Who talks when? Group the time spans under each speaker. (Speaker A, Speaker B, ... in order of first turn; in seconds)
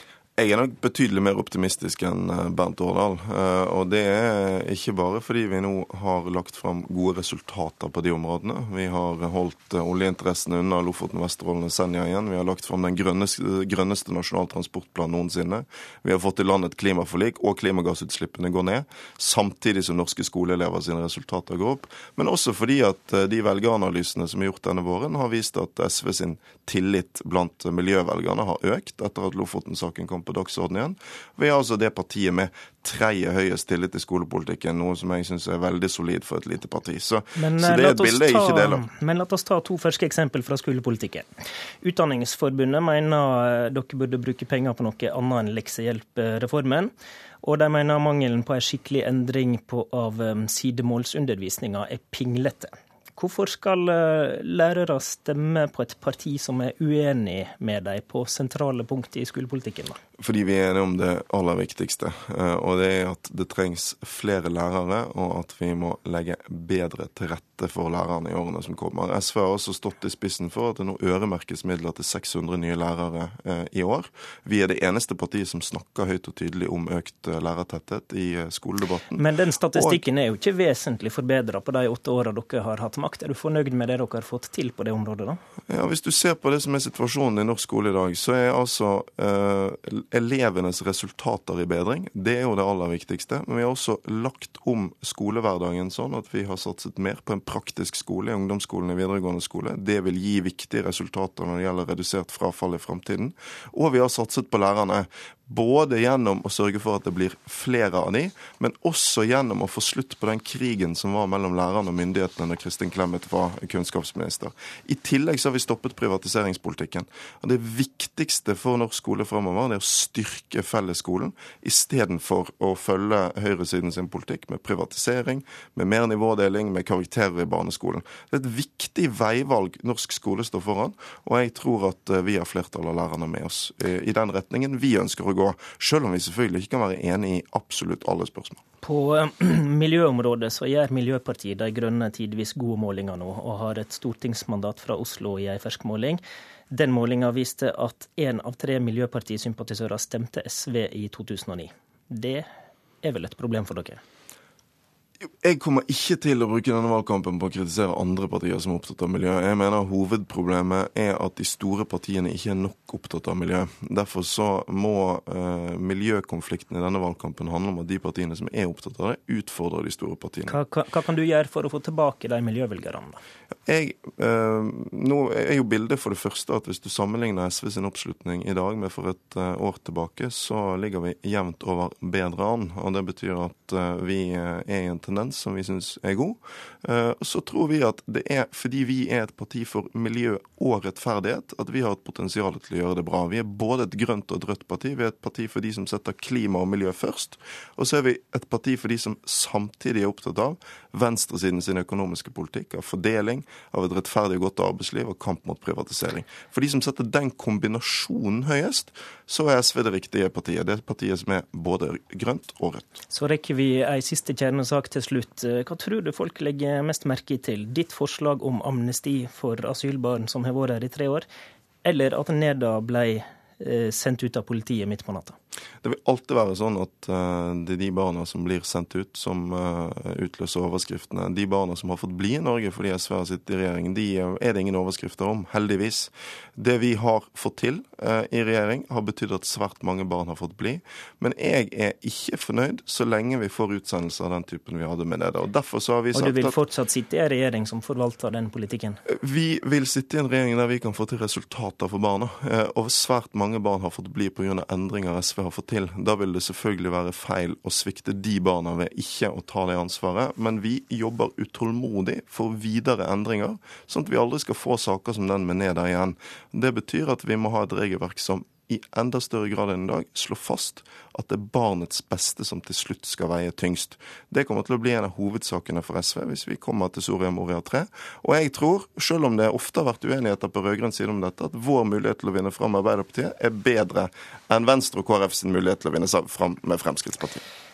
Speaker A: 0.4-38.9, 60.2-80.0, 85.7-138.6, 155.4-170.6, 173.7-212.9, 225.8-246.6, 249.1-287.4
Speaker B: 37.4-41.3, 41.8-60.0, 79.1-85.4, 138.8-152.5, 153.0-154.0, 170.5-173.2, 213.1-221.3, 221.8-225.3, 246.1-249.0